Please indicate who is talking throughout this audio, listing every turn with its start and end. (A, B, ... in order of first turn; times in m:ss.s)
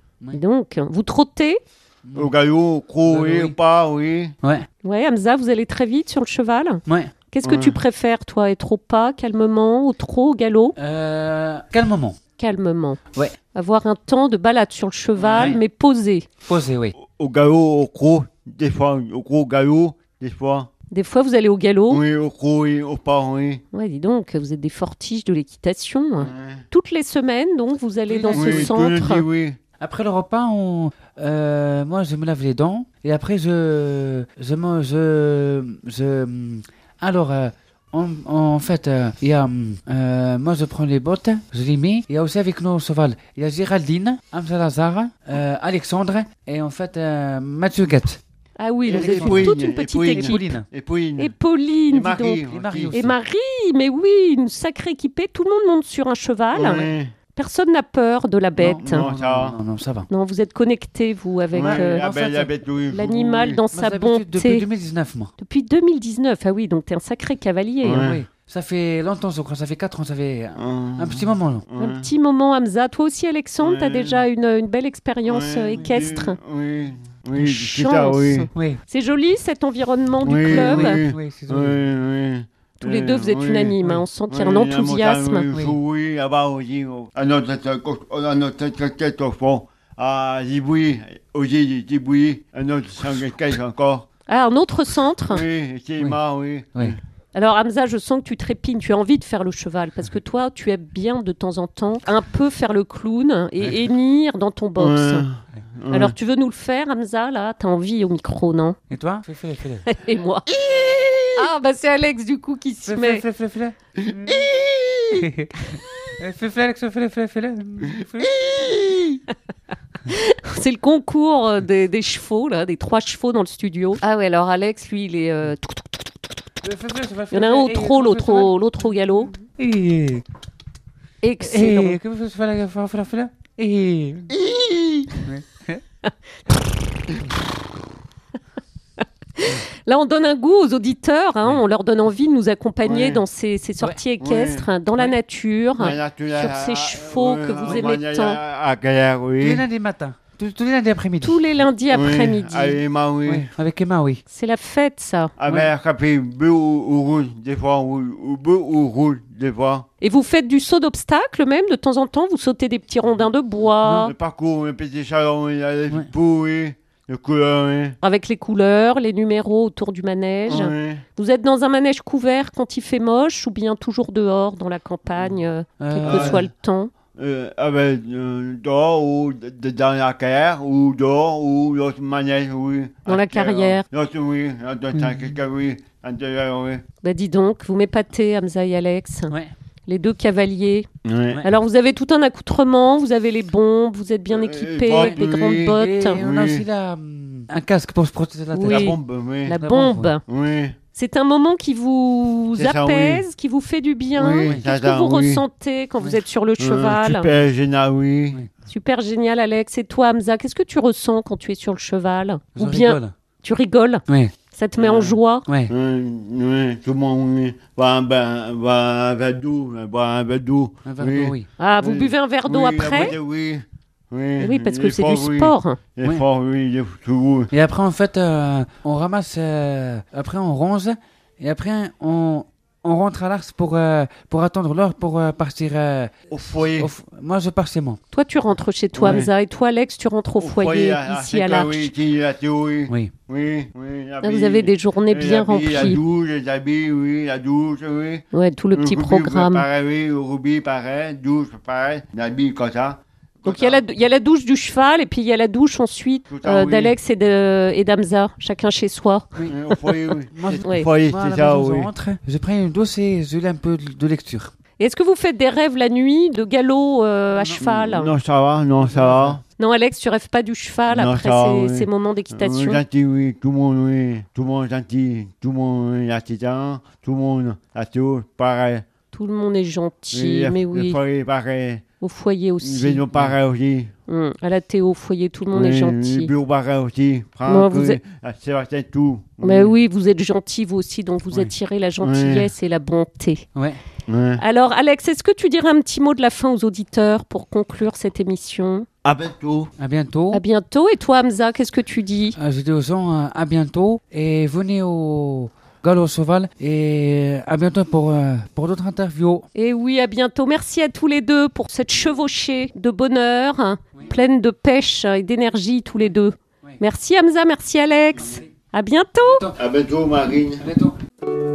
0:00.3-0:01.6 A
0:02.1-0:02.3 B
0:02.2-0:04.4 C
0:03.0-0:03.6 B
0:04.8-0:10.8 A
0:06.9-0:07.1 B
0:07.4-0:07.8 C
0:10.8-0:12.2 B
0:12.4-0:13.0 A
0:13.5-0:16.3 A
0:15.2-0:15.6 C
0:15.3-0:15.6 B
0:16.4-0:16.9 B
0:17.0-0:20.7 C
0:20.9-0:22.0 A
0:21.9-0:23.6 C
0:23.7-0:29.3 A
0:26.2-0:26.6 C
0:28.1-0:28.8 B
0:28.3-0:29.6 C
0:29.8-0:48.2 B
0:48.6-0:50.6 A
0:48.8-0:51.3 C
0:48.9-0:49.5 B
0:50.1-0:50.7 B
0:51.2-0:59.1 A
0:51.9-0:53.0 C
0:52.5-0:53.2 B
0:56.5-0:57.1 C
0:58.6-1:00.1 B
0:58.8-0:59.6 C
1:00.1-1:02.1 A
1:01.5-1:03.6 C
1:01.5-1:02.5 B
1:02.9-1:04.7 A
1:03.7-1:05.3 B
1:05.4-1:08.2 A
1:07.8-1:08.1 C
1:08.0-1:11.6 B
1:10.6-1:12.1 C
1:11.8-1:16.4 A
1:13.6-1:14.2 C
1:15.3-1:18.5 C
1:15.8-1:16.0 B
1:17.4-1:21.0 A
1:18.5-1:18.8 B
1:20.2-1:23.8 C
1:20.5-1:21.8 B
1:22.8-1:25.5 A
1:24.3-1:34.1 C
1:34.3-1:35.4 A
1:35.3-1:37.0 C
1:37.3-1:45.2 A
1:44.8-1:46.1 C
1:45.9-1:48.8 A
1:48.9-1:49.8 B
1:49.8-1:50.5 A
1:50.6-1:51.4 C
1:51.4-1:53.2 A
1:52.9-1:54.5 B
1:54.0-1:55.3 C
1:55.1-1:58.8 B
2:00.1-2:06.1 A
2:06.6-2:08.5 B
2:07.3-2:09.4 A
2:09.2-2:10.2 B
2:11.2-2:12.0 A
2:11.4-2:14.3 B
2:14.4-2:15.1 C
2:15.2-2:15.8 B
2:19.4-2:28.4 A
2:22.8-2:23.2 C
2:24.2-2:24.7 C
2:25.8-2:29.6 C
2:29.4-2:31.4 B
2:31.2-2:32.8 A
2:31.9-2:33.5 C
2:33.3-2:34.2 B
2:34.3-2:35.4 A
2:35.4-2:39.9 C
2:40.0-2:44.1 A
2:44.0-2:48.0 C
2:48.0-2:56.9 A
2:50.5-2:51.0 C
2:55.1-2:55.4 C
2:55.8-2:56.5 B
2:56.1-2:56.4 C
2:57.2-3:06.8 C
3:03.1-3:03.8 A
3:05.0-3:05.3 B
3:07.0-3:09.4 A
3:09.9-3:10.9 A
3:11.0-3:11.4 C
3:11.4-3:16.2 A
3:14.3-3:16.7 C
3:14.9-3:19.0 B
3:18.5-3:20.2 A
3:18.6-3:19.6 C
3:19.6-3:20.1 B
3:20.3-3:20.8 C
3:20.9-3:27.3 A
3:22.6-3:23.2 C
3:24.2-3:25.4 C
3:26.6-3:28.4 C
3:28.7-3:35.5 A
3:32.6-3:33.1 B
3:34.1-3:34.3 B
3:34.8-3:35.2 C
3:35.5-3:35.7 B
3:35.7-3:47.5 C
3:40.8-3:41.5 B
3:41.6-3:43.2 A
3:44.4-3:45.8 A
3:47.5-3:58.0 B
3:56.3-3:56.9 C
3:58.1-4:01.9 A
3:58.9-3:59.3 C
3:59.0-3:59.3 B
4:00.4-4:13.8 C
4:04.2-4:06.0 A
4:08.3-4:09.7 A
4:13.4-4:19.3 A
4:16.3-4:17.0 C
4:19.4-4:24.5 B
4:19.5-4:21.9 C
4:20.6-4:20.9 A
4:24.8-4:28.1 A
4:27.3-4:27.6 B
4:27.6-4:29.4 C
4:28.8-4:29.4 B
4:29.6-4:32.8 A
4:30.9-4:38.9 C
4:39.1-4:41.0 A
4:40.1-4:41.8 C
4:42.0-4:43.0 A
4:42.6-4:43.9 C
4:44.1-4:46.3 A
4:45.5-4:49.8 C
4:47.5-4:48.0 A
4:49.4-4:53.5 A
4:52.0-4:52.5 C
4:53.6-4:53.8 B
4:54.1-4:54.4 C
4:54.4-4:58.9 A
4:59.0-4:59.7 C
4:59.8-5:00.4 B
5:00.3-5:02.4 A
5:02.4-5:09.5 B
5:09.5-5:19.4 A
5:18.2-5:18.5 B
5:19.2-5:19.6 B
5:19.6-5:20.6 C
5:20.6-5:21.0 B